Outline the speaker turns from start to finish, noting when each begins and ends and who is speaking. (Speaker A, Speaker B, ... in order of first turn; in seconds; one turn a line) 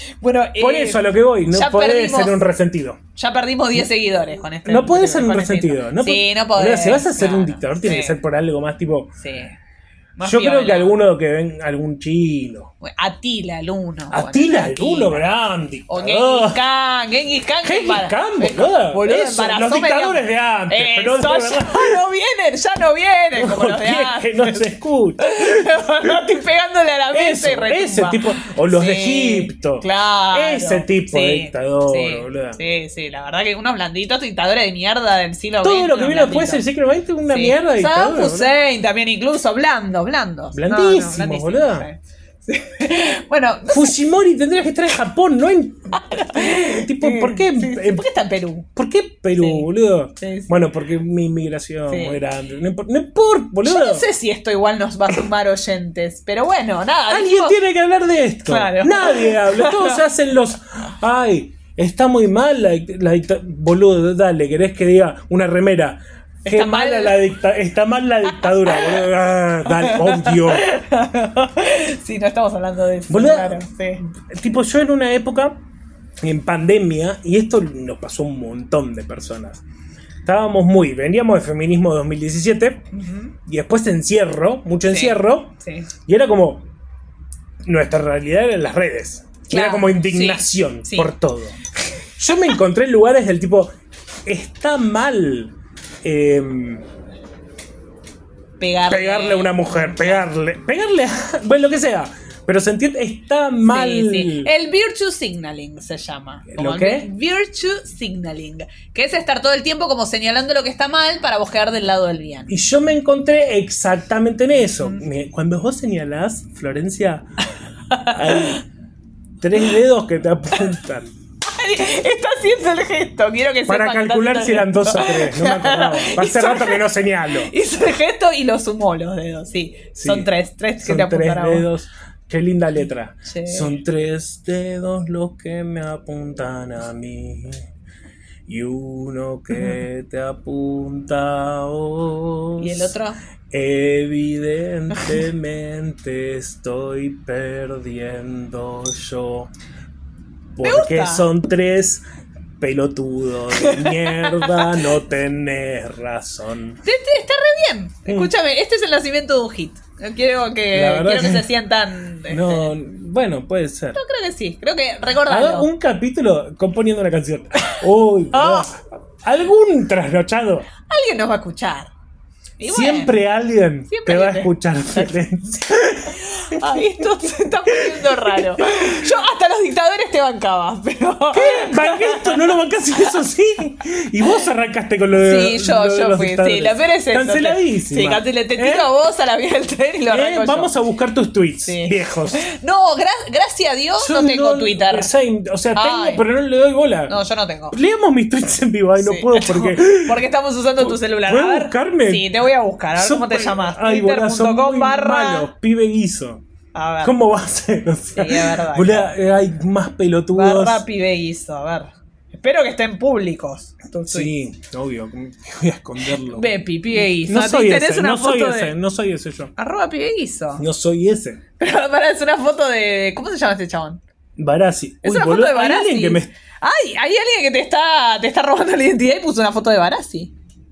Speaker A: 0.2-2.4
Speaker B: 0.6-3.0
Speaker A: 3.1-8.2
Speaker B: 4.6-9.1
Speaker A: 9.2-9.5
Speaker A: 10.2-11.0
Speaker B: 10.2-12.7
Speaker A: 12.8-15.3
Speaker B: 14.1-16.6
Speaker A: 15.9-24.6
Speaker B: 17.6-22.0
Speaker B: 23.3-25.8
Speaker A: 25.2-36.6
Speaker B: 27.1-32.6
Speaker B: 35.6-38.5
Speaker A: 37.3-44.0
Speaker B: 40.5-41.9
Speaker B: 43.7-48.0
Speaker A: 45.9-48.7
Speaker B: 48.7-54.0
Speaker A: 49.4-49.7
Speaker A: 50.2-50.5
Speaker A: 51.9-52.2
Speaker A: 53.6-57.6
Speaker B: 57.1-70.7
Speaker A: 58.5-60.0
Speaker A: 66.5-67.2
Speaker A: 68.3-69.0
Speaker A: 69.7-74.0
Speaker B: 73.1-75.5
Speaker B: 76.2-79.6
Speaker B: 80.2-82.8
Speaker A: 82.9-83.3
Speaker B: 83.4-85.5
Speaker A: 84.9-85.9
Speaker B: 86.0-86.7
Speaker B: 87.6-91.5
Speaker A: 89.5-91.1
Speaker B: 92.2-93.7
Speaker B: 94.2-96.8
Speaker A: 98.6-100.2
Speaker B: 98.9-104.5
Speaker A: 103.6-112.5
Speaker B: 106.5-107.1
Speaker B: 112.5-117.3
Speaker A: 117.9-118.6
Speaker B: 118.0-118.6
Speaker B: 119.4-121.1
Speaker A: 121.4-131.7
Speaker B: 123.7-127.5
Speaker B: 129.9-137.7
Speaker A: 133.2-133.7
Speaker B: 138.5-142.9
Speaker A: 142.6-143.2
Speaker B: 143.5-149.5
Speaker A: 144.9-145.2
Speaker B: 150.6-152.0
Speaker A: 150.6-151.2
Speaker B: 152.6-156.8
Speaker A: 153.6-154.8
Speaker A: 156.8-162.7
Speaker B: 158.1-158.3
Speaker B: 160.7-161.5
Speaker B: 162.3-164.0
Speaker A: 163.9-165.7
Speaker B: 165.2-170.7
Speaker A: 168.3-168.7
Speaker A: 170.9-171.9
Speaker A: 172.6-173.2
Speaker B: 172.7-176.9
Speaker A: 173.9-175.1
Speaker A: 176.1-183.2
Speaker B: 177.7-178.5
Speaker B: 181.3-188.9
Speaker A: 185.1-190.7
Speaker B: 190.1-192.5
Speaker A: 191.6-195.1
Speaker B: 194.0-197.2
Speaker A: 195.7-196.2
Speaker A: 197.1-197.8
Speaker B: 197.7-200.2
Speaker A: 199.0-205.5
Speaker B: 200.8-202.3
Speaker B: 202.9-206.4
Speaker A: 206.7-207.1
Speaker B: 207.0-210.8
Speaker A: 208.1-209.1
Speaker A: 210.3-214.3
Speaker B: 214.1-219.5
Speaker A: 216.1-218.7
Speaker A: 219.6-220.6
Speaker B: 220.6-221.4
Speaker A: 221.6-224.0
Speaker B: 224.4-226.3
Speaker A: 225.0-230.3